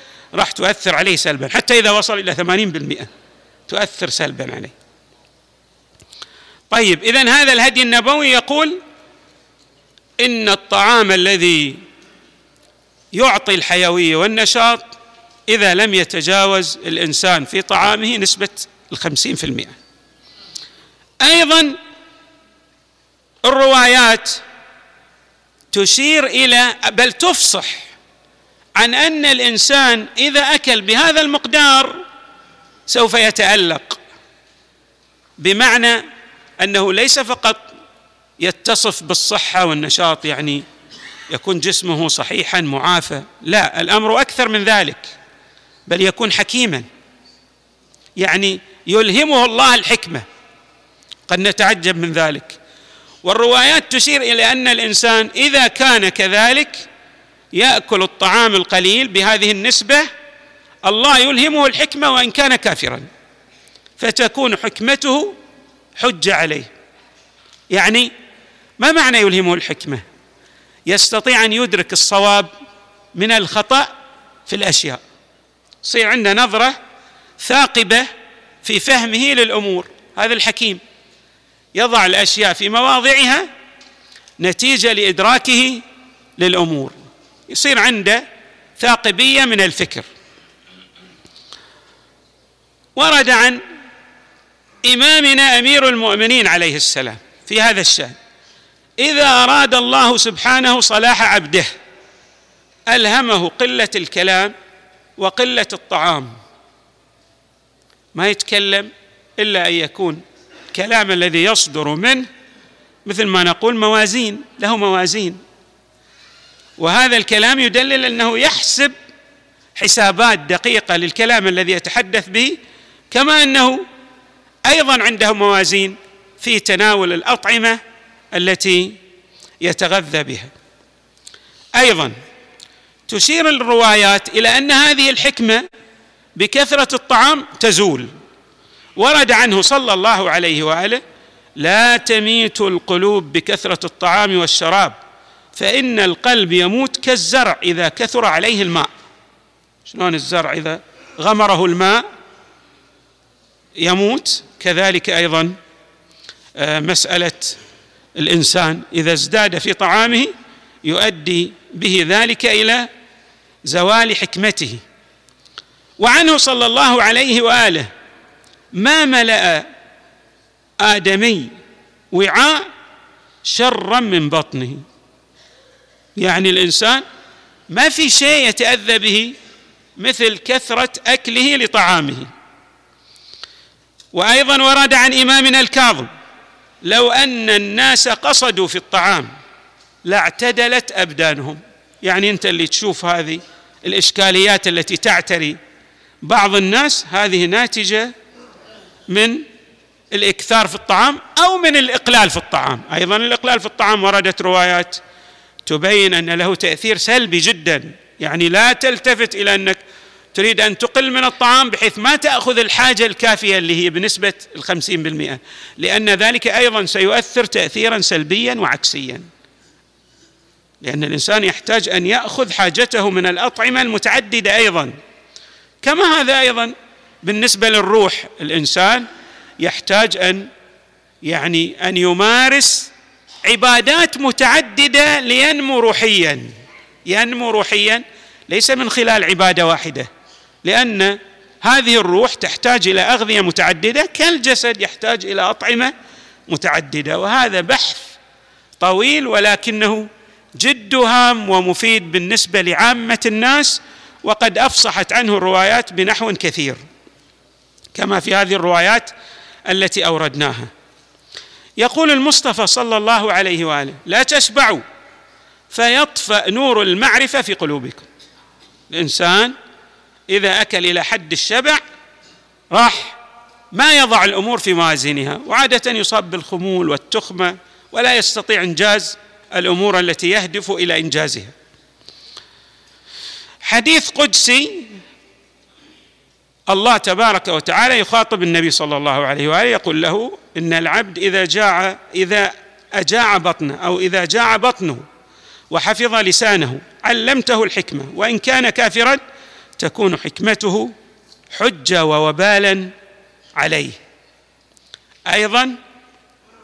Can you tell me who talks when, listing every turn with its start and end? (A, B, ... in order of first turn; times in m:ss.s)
0:00.4-0:03.1 A
0:03.7-0:04.7 A
0:06.7-0:08.8 A
0:10.2-0:11.8 A
0:13.2-0:14.8 A
0:15.5-0:19.8 A
0:21.2-0:21.8 A
0:23.4-0:24.4 A
0:25.7-0:27.9 A
0:28.8-0:32.0 A
0:32.9-0:34.0 A
0:35.4-0:36.0 A
0:36.6-0:37.6 A
0:38.4-0:40.6 A
0:41.3-0:45.2 A
0:45.9-0:46.8 A
0:48.2-0:50.2 A
0:51.3-0:52.6 A
0:53.2-0:56.9 A
0:57.5-1:00.1 A
1:00.8-1:03.1 A
1:04.0-1:05.3 A
1:06.0-1:06.7 A
1:07.7-1:08.1 A
1:08.8-1:10.0 A
1:10.9-1:12.5 A
1:13.2-1:13.9 A
1:14.5-1:15.0 A
1:15.8-1:16.8 A
1:17.4-1:18.1 A
1:18.6-1:20.8 A
1:21.8-1:23.5 A
1:24.4-1:25.8 A
1:26.4-1:27.0 A
1:27.5-1:28.2 A
1:28.8-1:30.0 A
1:33.0-1:33.6 A
1:34.8-1:38.2 A
1:39.0-1:41.7 A
1:42.9-1:44.5 A
1:45.2-1:46.3 A
1:48.1-1:50.2 A
1:50.7-1:52.2 A
1:53.1-1:55.4 A
1:56.8-1:58.9 A
1:59.8-2:02.6 A
2:03.1-2:03.8 A
2:04.6-2:07.8 A
2:08.3-2:09.0 A
2:09.6-2:10.5 A
2:11.8-2:12.1 A
2:13.1-2:15.6 A
2:16.4-2:18.1 A
2:19.0-2:21.0 A
2:21.6-2:24.9 A
2:25.6-2:28.9 A
2:29.9-2:32.0 A
2:33.8-2:35.6 A
2:36.6-2:37.6 A
2:38.2-2:40.3 A
2:40.8-2:42.9 A
2:43.7-2:44.8 A
2:46.0-2:47.9 A
2:48.7-2:49.7 A
2:50.8-2:51.5 A
2:52.1-2:52.7 A
2:53.4-2:54.8 A
2:56.2-2:57.0 A
2:57.7-2:59.3 A
3:00.0-3:02.3 A
3:04.1-3:06.1 A
3:06.8-3:09.3 A
3:10.0-3:15.6 A
3:16.2-3:18.1 A
3:19.1-3:19.4 A
3:20.1-3:25.0 A
3:25.7-3:29.8 A
3:30.3-3:39.3 A
3:40.8-3:44.9 A
3:45.8-3:49.0 A
3:49.6-3:50.5 A
3:51.2-3:52.9 A
3:53.4-3:56.5 A
3:57.1-4:00.1 A
4:00.6-4:05.9 A
4:06.5-4:08.2 A
4:08.8-4:16.8 A
4:18.0-4:19.1 A
4:19.7-4:20.7 A
4:21.8-4:24.8 A
4:25.7-4:28.1 A
4:28.9-4:29.5 A
4:30.3-4:31.8 A
4:32.7-4:33.2 A
4:33.7-4:41.5 A
4:43.6-4:44.9 A
4:46.7-4:55.0 A
4:55.7-4:59.2 A
4:59.8-5:00.9 A
5:01.5-5:02.9 A
5:03.6-5:04.0 A
5:05.3-5:05.8 A